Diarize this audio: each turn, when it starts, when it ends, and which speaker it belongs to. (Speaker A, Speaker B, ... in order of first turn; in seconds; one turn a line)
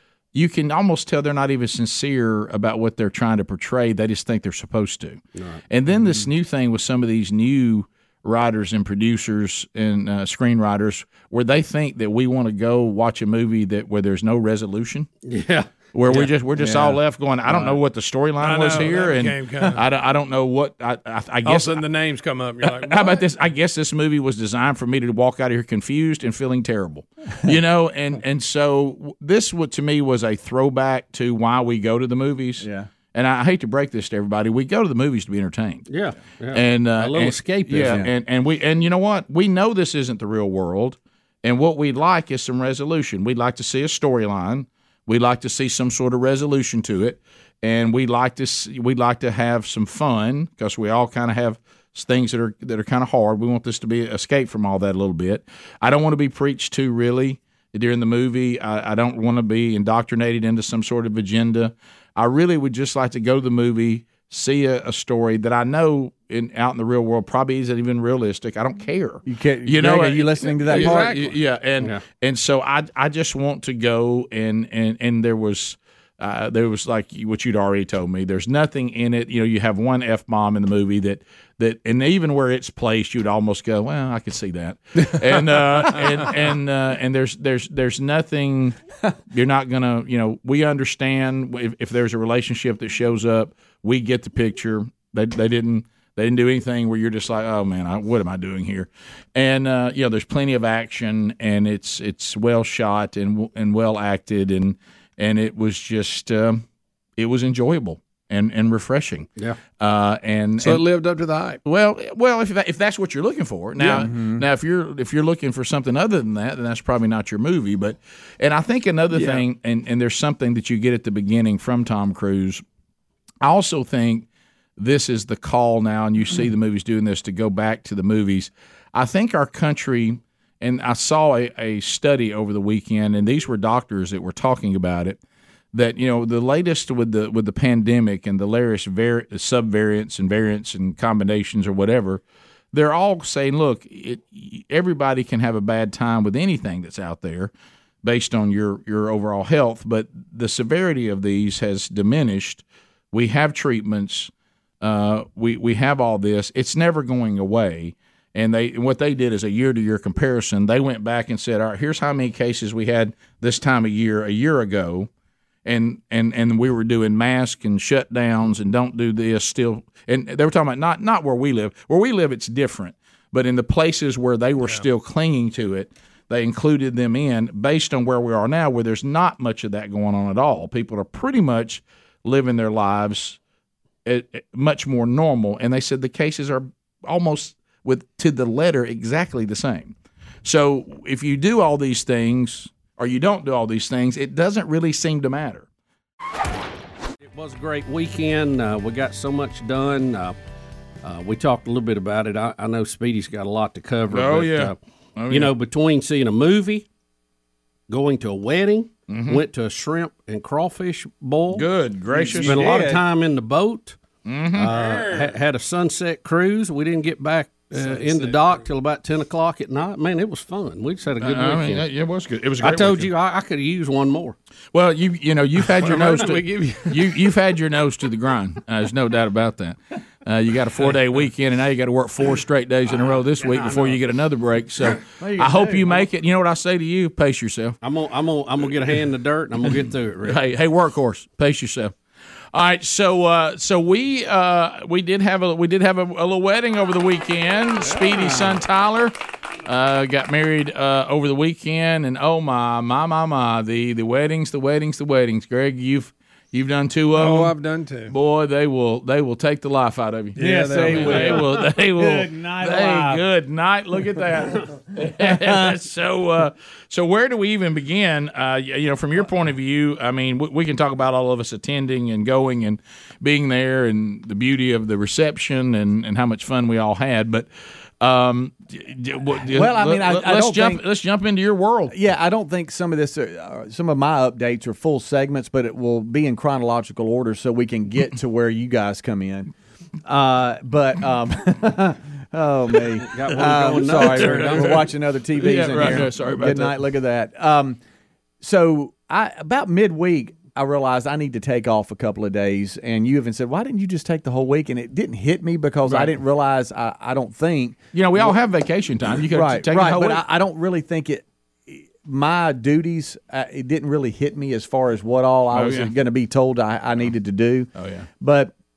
Speaker A: 0.3-15.1
Speaker B: 5.3-5.6
Speaker B: 15.2-16.7
Speaker A: 15.9-21.8
Speaker C: 18.4-19.8
Speaker C: 21.4-23.2
Speaker A: 22.6-35.9
Speaker D: 32.6-32.9
Speaker B: 35.9-38.0
Speaker A: 36.5-88.8
Speaker D: 37.7-38.1
Speaker D: 69.3-71.3
Speaker A: 89.3-106.6
Speaker A: 107.2-110.8
Speaker C: 110.6-111.6
Speaker A: 111.6-122.6
Speaker D: 113.8-114.5
Speaker C: 119.1-119.4
Speaker A: 123.4-135.2
Speaker A: 135.7-142.2
Speaker A: 142.7-147.5
Speaker A: 148.0-165.1
Speaker A: 165.6-183.4
Speaker A: 184.1-195.7
Speaker B: 197.3-200.4
Speaker B: 201.0-204.8
Speaker A: 204.1-205.5
Speaker B: 205.3-206.9
Speaker B: 207.9-211.7
Speaker A: 209.1-209.4
Speaker A: 211.5-212.6
Speaker C: 212.1-212.8
Speaker D: 212.4-213.0
Speaker B: 212.4-214.0
Speaker A: 214.2-214.7
Speaker B: 214.5-221.9
Speaker C: 214.7-215.3
Speaker C: 217.8-218.7
Speaker A: 221.2-223.1
Speaker B: 222.6-224.4
Speaker A: 224.7-237.8
Speaker C: 225.8-227.3
Speaker D: 235.2-236.1
Speaker B: 237.8-240.4
Speaker A: 240.2-241.9
Speaker A: 242.5-249.1
Speaker C: 248.0-248.4
Speaker A: 249.6-257.6
Speaker C: 257.2-258.1
Speaker A: 258.1-277.5
Speaker C: 260.4-261.5
Speaker D: 260.4-263.2
Speaker D: 265.2-265.8
Speaker A: 278.0-281.9
Speaker D: 279.5-280.8
Speaker D: 281.9-289.5
Speaker D: 290.1-297.8
Speaker B: 293.1-294.9
Speaker A: 293.9-296.8
Speaker D: 298.4-308.4
Speaker A: 305.9-306.1
Speaker A: 307.9-310.2
Speaker D: 309.3-318.5
Speaker A: 315.5-315.9
Speaker A: 317.8-318.1